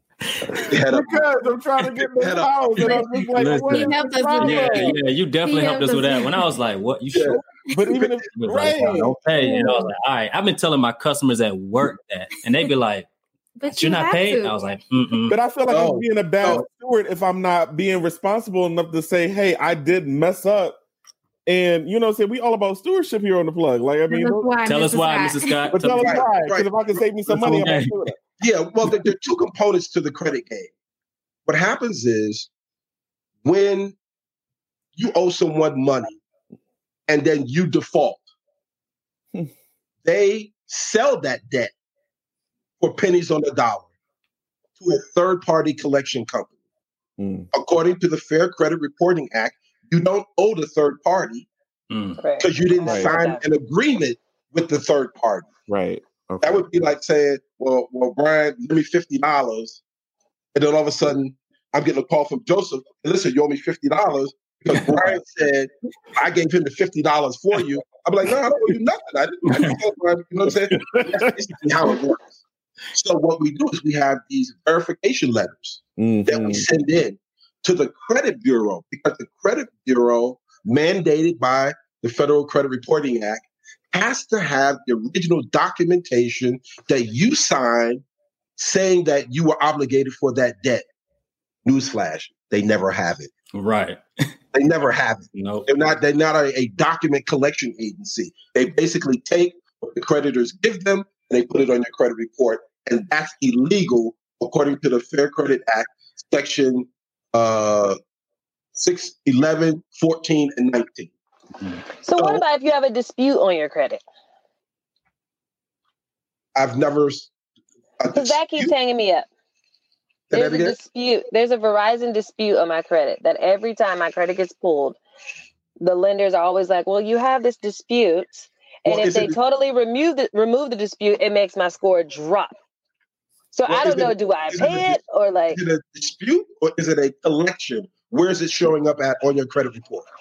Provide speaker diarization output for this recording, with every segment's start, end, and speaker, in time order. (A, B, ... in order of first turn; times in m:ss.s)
0:00.3-0:00.7 A
0:00.5-0:05.0 B
0:00.7-0:01.3 C
0:02.2-0:03.0 C
0:02.8-0:07.6 A
0:03.7-0:06.4 D
0:07.1-0:08.2 C
0:07.7-0:09.2 B
0:08.3-0:13.1 A
0:09.4-0:09.9 D
0:13.6-0:14.6 D
0:13.7-0:15.4 A
0:15.3-0:20.8 B
0:15.7-0:16.7 C
0:21.5-0:24.5 B
0:24.1-0:25.6 D
0:24.6-0:26.3 A
0:25.7-0:28.2 B
0:25.9-0:27.7 C
0:27.3-0:28.0 A
0:28.4-0:30.7 C
0:31.5-0:32.5 C
0:33.4-0:34.0 C
0:35.0-0:36.2 C
0:37.1-0:38.2 C
0:40.0-0:41.7 C
0:42.8-0:43.9 C
0:44.8-0:46.5 C
0:47.2-0:47.5 B
0:47.5-0:51.5 C
0:51.9-0:52.2 A
0:52.2-0:53.4 E
0:52.4-0:55.5 C
0:52.8-0:53.1 B
0:55.7-0:56.7 B
0:56.4-0:59.8 C
1:00.5-1:12.4 C
1:10.7-1:11.4 B
1:12.9-1:28.0 C
1:16.0-1:16.7 B
1:28.6-1:30.8 C
1:31.6-1:33.3 C
1:33.5-1:34.3 A
1:34.5-1:48.0 C
1:35.4-1:35.7 A
1:48.8-1:51.1 C
1:52.0-1:54.0 E
1:52.1-1:52.4 C
1:56.6-1:57.3 C
1:58.0-1:58.7 C
1:58.1-1:59.3 E
2:00.3-2:00.8 C
2:00.3-2:05.0 E
2:05.8-2:12.6 E
2:08.9-2:09.4 C
2:13.5-2:15.6 E
2:13.7-2:15.0 C
2:15.5-2:20.1 C